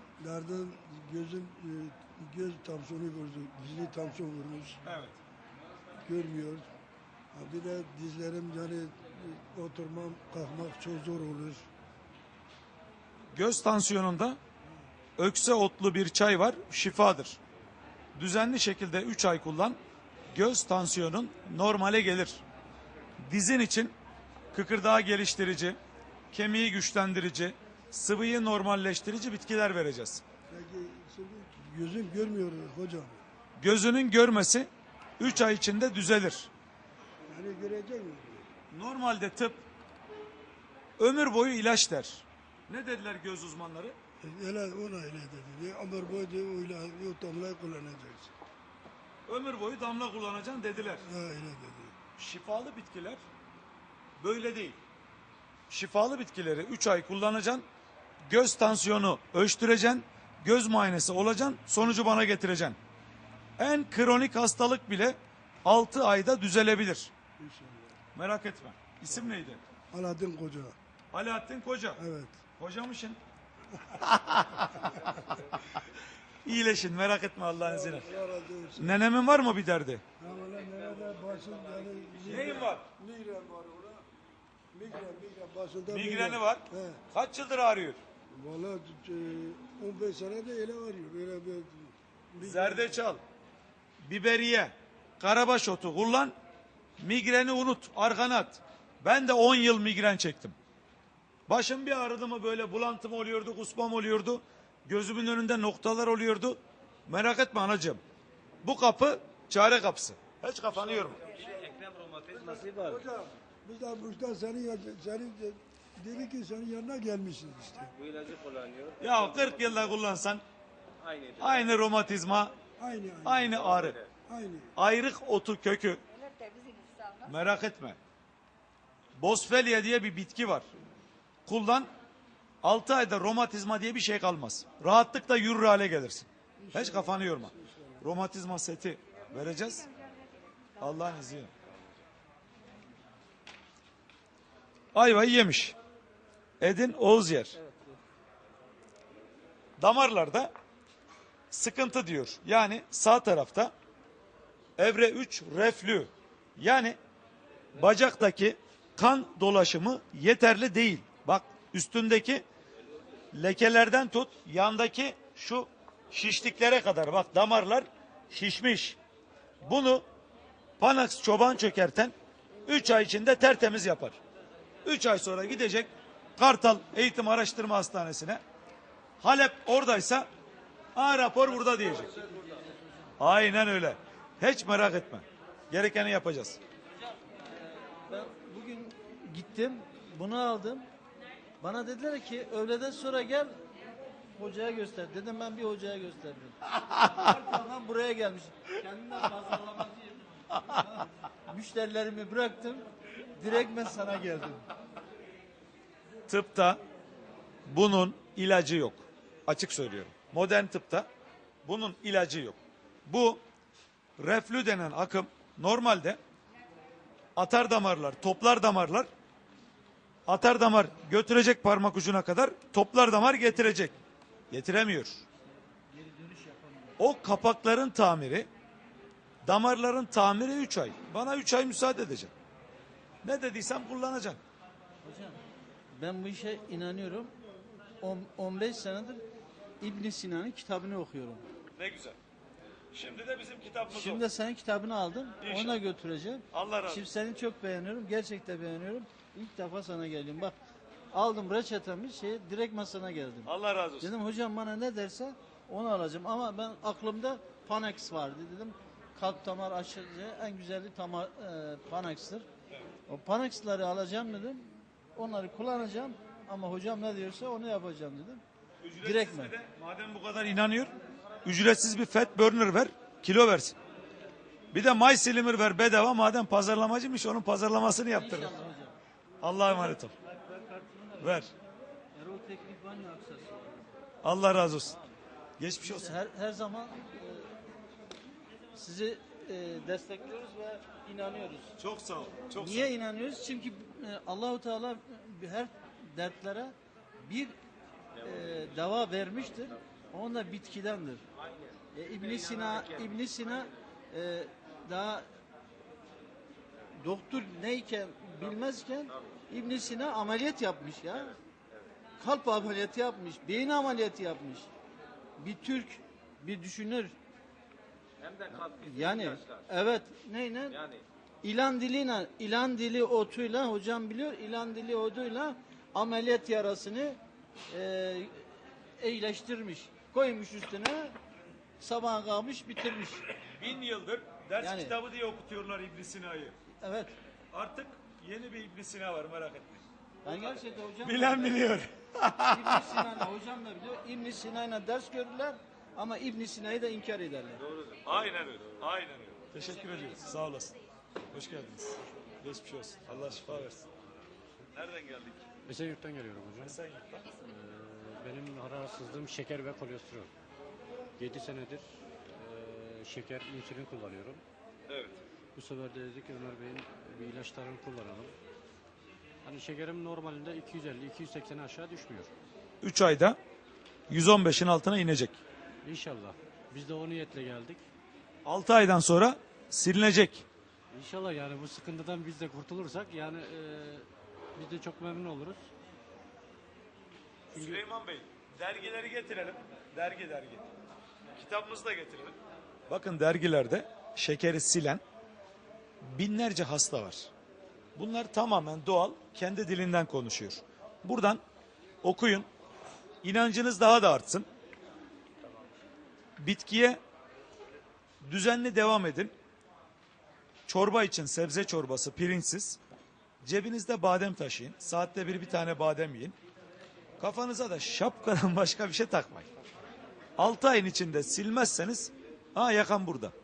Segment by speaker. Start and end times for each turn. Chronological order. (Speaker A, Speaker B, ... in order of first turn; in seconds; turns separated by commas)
Speaker A: 0.2-4.8, Speaker B: 4.8-5.2, Speaker A: 6.0-6.7, Speaker A: 7.3-11.7, Speaker B: 13.3-14.4, Speaker B: 15.2-17.4, Speaker B: 18.1-19.8, Speaker B: 20.3-22.4, Speaker B: 23.2-23.9, Speaker B: 24.5-25.8, Speaker B: 26.3-30.2, Speaker A: 30.5-33.2, Speaker B: 33.6-36.5, Speaker A: 37.3-38.5, Speaker B: 38.7-39.6, Speaker B: 41.0-44.0, Speaker A: 44.2-48.3, Speaker B: 49.3-51.1, Speaker A: 51.0-52.0, Speaker B: 52.2-53.2, Speaker B: 54.2-54.8, Speaker B: 55.7-57.6, Speaker B: 58.2-62.8, Speaker B: 63.6-67.1, Speaker A: 67.4-68.0, Speaker B: 68.2-69.6, Speaker A: 69.9-70.8, Speaker B: 71.1-72.0, Speaker A: 72.0-72.4, Speaker B: 72.6-73.2, Speaker A: 73.7-74.0, Speaker B: 74.0-75.8, Speaker A: 74.8-75.1, Speaker B: 76.4-78.1, Speaker A: 77.6-79.0, Speaker B: 78.8-80.0, Speaker A: 80.2-84.0, Speaker B: 82.2-82.9, Speaker A: 84.7-87.0, Speaker B: 85.9-88.0, Speaker A: 88.3-93.0, Speaker B: 92.4-93.2, Speaker B: 94.0-96.3, Speaker B: 97.0-100.6, Speaker B: 101.5-108.0, Speaker B: 108.6-111.3, Speaker C: 111.6-112.3, Speaker A: 112.3-118.0, Speaker C: 118.1-119.0, Speaker B: 119.0-120.4, Speaker C: 121.0-121.3, Speaker B: 121.4-122.6, Speaker A: 122.8-123.7, Speaker B: 123.2-124.0, Speaker A: 124.3-124.7, Speaker B: 124.8-126.0, Speaker C: 126.4-127.1, Speaker B: 127.2-128.0, Speaker B: 129.2-130.7, Speaker B: 131.5-131.9, Speaker B: 132.6-139.9, Speaker A: 136.6-138.0, Speaker B: 140.8-141.5, Speaker B: 144.9-145.8, Speaker B: 146.6-147.6, Speaker B: 149.8-150.5, Speaker B: 151.5-153.7, Speaker B: 154.8-157.0, Speaker B: 157.7-162.4, Speaker B: 163.3-169.0, Speaker B: 169.6-170.1, Speaker B: 170.8-172.1, Speaker B: 172.7-174.2, Speaker B: 174.8-178.4, Speaker B: 179.2-180.3, Speaker B: 180.9-182.2, Speaker D: 182.2-182.9, Speaker B: 183.2-186.6, Speaker D: 187.0-190.9, Speaker D: 191.6-193.5, Speaker D: 194.3-204.7, Speaker B: 206.3-206.8, Speaker B: 207.7-211.1, Speaker B: 211.7-213.4, Speaker B: 214.2-216.2, Speaker B: 217.4-219.1, Speaker B: 220.3-224.0, Speaker B: 224.5-225.2, Speaker D: 225.8-227.0, Speaker B: 227.0-228.5, Speaker B: 229.4-232.3, Speaker B: 233.2-234.4, Speaker D: 235.0-235.4, Speaker D: 235.9-237.3, Speaker D: 238.0-239.2, Speaker D: 239.8-241.4, Speaker B: 241.8-242.2, Speaker B: 242.9-244.2, Speaker D: 243.9-250.6, Speaker B: 245.4-245.8, Speaker B: 246.5-247.1, Speaker D: 251.1-253.5, Speaker B: 253.5-254.1, Speaker D: 254.0-262.5, Speaker D: 263.1-268.4, Speaker B: 268.8-270.9, Speaker D: 269.0-269.5, Speaker B: 271.4-273.8, Speaker B: 274.7-278.6, Speaker D: 278.1-279.0, Speaker B: 279.4-280.1, Speaker D: 279.7-281.4, Speaker B: 281.2-281.5, Speaker D: 282.1-283.9, Speaker B: 284.2-285.0, Speaker D: 284.8-285.1, Speaker B: 285.6-286.1, Speaker D: 285.8-287.5, Speaker D: 288.7-291.7, Speaker B: 291.8-292.9, Speaker D: 292.6-297.5, Speaker D: 298.2-301.2, Speaker D: 301.9-305.3, Speaker D: 307.0-311.4, Speaker D: 312.2-314.7, Speaker D: 315.4-317.1, Speaker D: 318.5-320.8, Speaker D: 321.4-331.2, Speaker D: 331.8-333.3, Speaker B: 333.5-336.6, Speaker D: 334.6-334.9, Speaker D: 336.8-337.2, Speaker B: 337.5-339.8, Speaker D: 340.2-341.7, Speaker B: 341.0-343.2, Speaker D: 342.5-347.7, Speaker B: 348.0-350.7, Speaker B: 351.3-353.9, Speaker E: 353.1-353.7, Speaker B: 354.7-355.5, Speaker E: 355.6-356.8, Speaker B: 356.6-357.4, Speaker E: 357.4-360.3, Speaker E: 361.2-364.4, Speaker B: 364.9-365.2, Speaker E: 365.6-368.4, Speaker E: 369.4-372.3, Speaker B: 372.8-373.4, Speaker B: 374.1-375.4, Speaker E: 375.8-377.8, Speaker B: 378.4-380.5, Speaker E: 380.9-385.7, Speaker B: 387.5-390.6, Speaker E: 387.6-387.8, Speaker B: 391.4-392.4, Speaker B: 392.9-395.0, Speaker B: 396.0-397.3, Speaker B: 398.0-401.4, Speaker B: 402.0-402.5, Speaker B: 403.2-404.5, Speaker B: 406.4-407.0, Speaker B: 408.2-409.3, Speaker B: 410.7-412.8, Speaker B: 413.4-416.4, Speaker B: 417.2-419.5, Speaker B: 420.4-423.3